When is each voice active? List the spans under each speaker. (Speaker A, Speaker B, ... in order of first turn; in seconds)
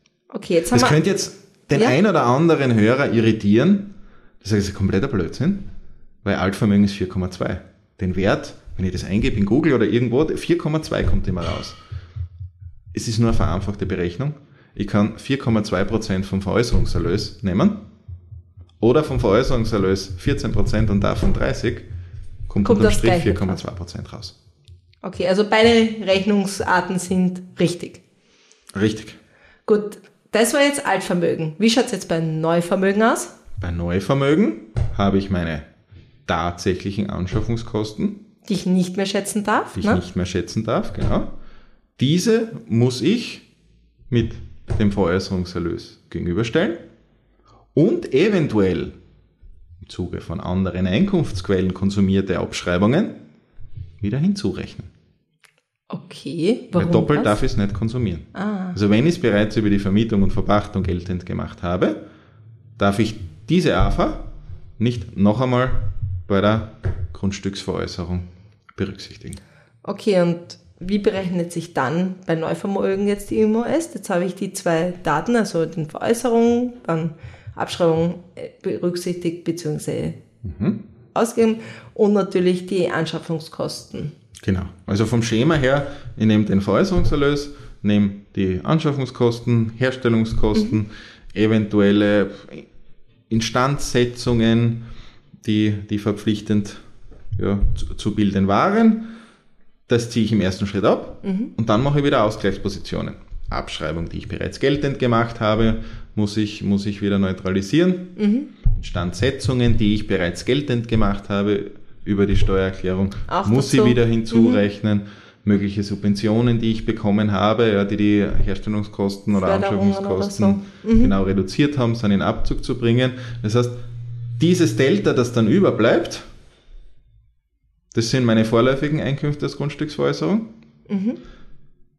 Speaker A: 0.3-1.0, 22.6-23.6, 25.0-28.0, 29.7-33.3, 38.5-40.0, 55.9-57.4, 58.3-58.8, 69.8-80.2, 81.2-84.1, 101.2-101.5, 108.2-108.5, 113.3-114.6, 119.3-121.1, 130.9-131.2
Speaker B: 0.7-5.7, 6.2-11.8, 12.9-17.9, 18.8-21.9, 22.5-24.4, 28.7-29.2, 33.6-35.7, 36.3-38.2, 39.8-41.3, 42.0-43.5, 44.1-46.8, 47.8-49.0, 49.8-53.2, 54.0-54.9, 56.7-62.0, 62.8-64.3, 64.8-69.4, 80.4-80.8, 84.4-92.7, 93.3-94.8, 95.4-96.8, 97.3-99.1, 99.9-108.2, 108.7-123.8, 124.4-126.3, 127.9-130.5